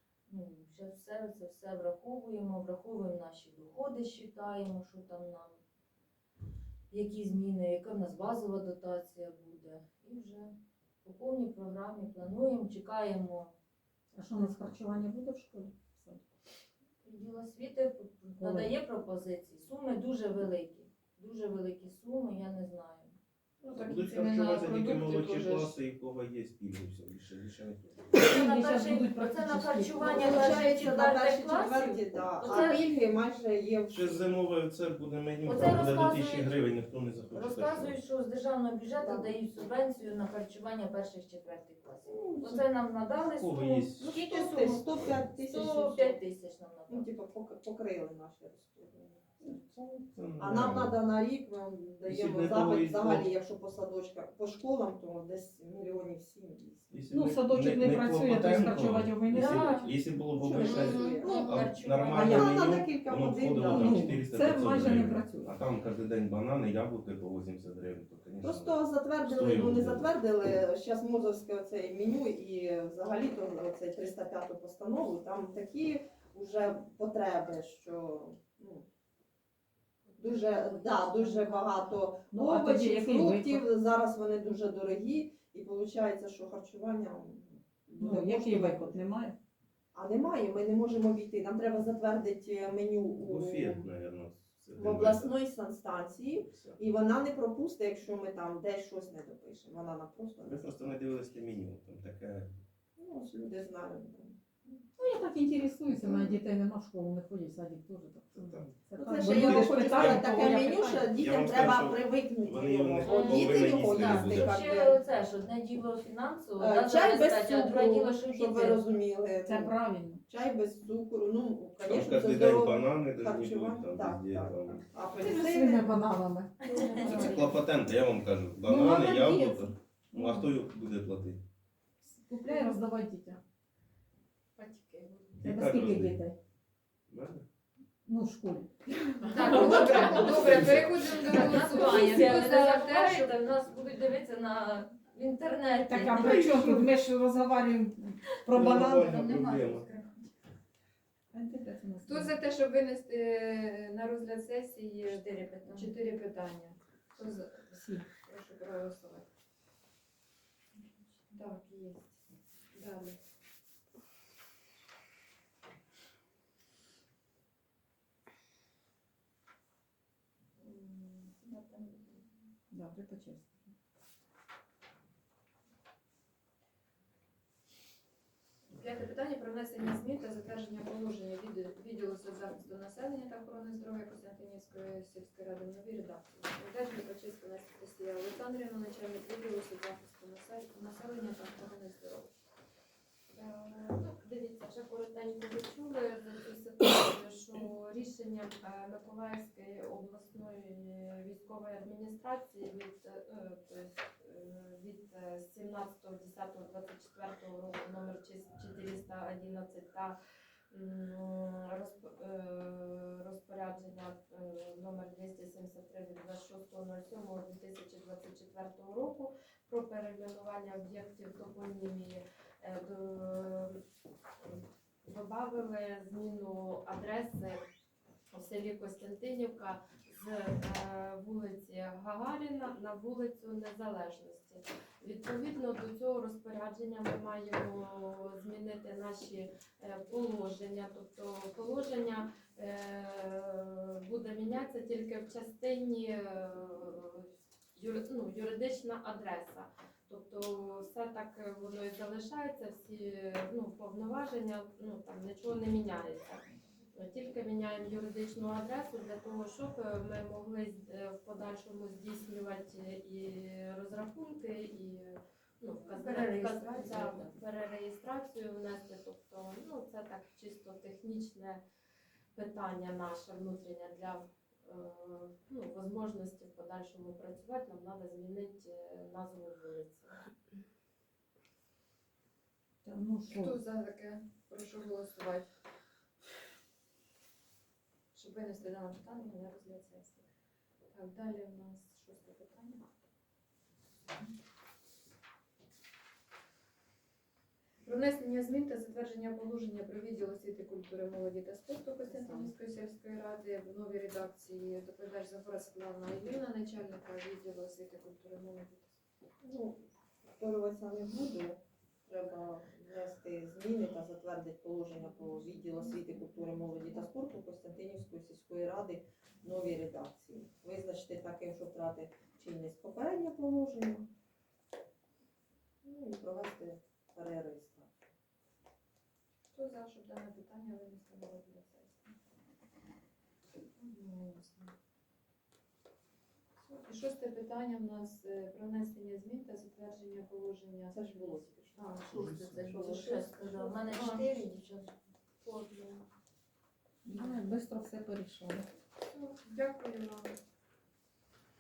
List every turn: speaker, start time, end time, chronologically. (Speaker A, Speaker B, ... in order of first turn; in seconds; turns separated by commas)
Speaker A: 0.3-5.6, Speaker A: 6.9-13.5, Speaker B: 14.1-16.2, Speaker A: 17.0-23.2, Speaker B: 18.4-18.7, Speaker C: 23.8-25.8, Speaker D: 23.8-28.2, Speaker A: 28.1-32.9, Speaker B: 28.2-30.2, Speaker E: 30.0-34.3, Speaker D: 33.9-38.0, Speaker A: 35.4-36.5, Speaker A: 37.3-47.1, Speaker E: 39.0-39.3, Speaker E: 42.1-42.6, Speaker D: 43.2-44.2, Speaker E: 44.0-46.2, Speaker E: 46.9-56.9, Speaker D: 50.0-51.0, Speaker D: 52.0-53.3, Speaker D: 56.9-70.1, Speaker B: 57.1-59.8, Speaker A: 59.3-59.9, Speaker E: 60.2-61.4, Speaker A: 60.6-62.5, Speaker E: 62.1-64.2, Speaker B: 62.1-62.4, Speaker B: 63.7-65.6, Speaker E: 68.4-78.8, Speaker E: 80.2-89.0, Speaker B: 82.3-83.6, Speaker B: 88.0-89.3, Speaker E: 89.9-93.9, Speaker D: 93.2-95.3, Speaker E: 94.8-100.9, Speaker D: 96.5-96.8, Speaker D: 100.4-102.5, Speaker E: 103.0-104.4, Speaker B: 105.0-111.2, Speaker E: 105.9-106.4, Speaker D: 108.3-110.3, Speaker E: 109.0-115.0, Speaker D: 111.2-114.5, Speaker A: 113.0-118.8, Speaker E: 116.6-119.8, Speaker B: 119.4-120.2, Speaker E: 120.3-125.9, Speaker D: 121.8-124.9, Speaker B: 125.2-127.4, Speaker A: 126.6-127.6, Speaker C: 126.8-127.5, Speaker D: 127.2-131.4, Speaker B: 128.6-130.5, Speaker B: 132.0-133.4, Speaker F: 134.6-135.4, Speaker D: 135.4-136.2, Speaker B: 135.4-136.3, Speaker D: 137.1-137.4, Speaker B: 138.1-140.1, Speaker C: 139.3-143.3, Speaker A: 139.3-146.9, Speaker B: 145.8-149.5, Speaker D: 148.5-149.9, Speaker C: 149.1-149.9, Speaker B: 151.3-152.3, Speaker C: 152.1-159.2, Speaker A: 155.1-155.9, Speaker B: 157.7-158.1, Speaker C: 161.3-162.2, Speaker C: 162.7-163.2, Speaker C: 170.6-172.2, Speaker B: 172.7-173.7, Speaker C: 178.7-192.3, Speaker F: 193.3-210.2, Speaker F: 210.7-223.8, Speaker F: 224.4-227.6, Speaker F: 228.3-271.6, Speaker A: 265.9-267.3, Speaker F: 272.3-280.2, Speaker B: 282.8-283.6, Speaker C: 283.3-285.5, Speaker C: 288.1-290.2, Speaker C: 290.9-292.8, Speaker C: 297.8-308.9, Speaker E: 309.4-309.8, Speaker E: 310.4-324.1, Speaker E: 325.8-327.9, Speaker C: 329.5-332.1, Speaker C: 333.8-334.7, Speaker C: 336.6-344.3, Speaker E: 340.9-341.9, Speaker A: 342.0-344.6, Speaker D: 342.1-342.6, Speaker E: 342.6-343.0, Speaker F: 345.4-345.9, Speaker B: 347.0-348.7, Speaker C: 349.1-350.3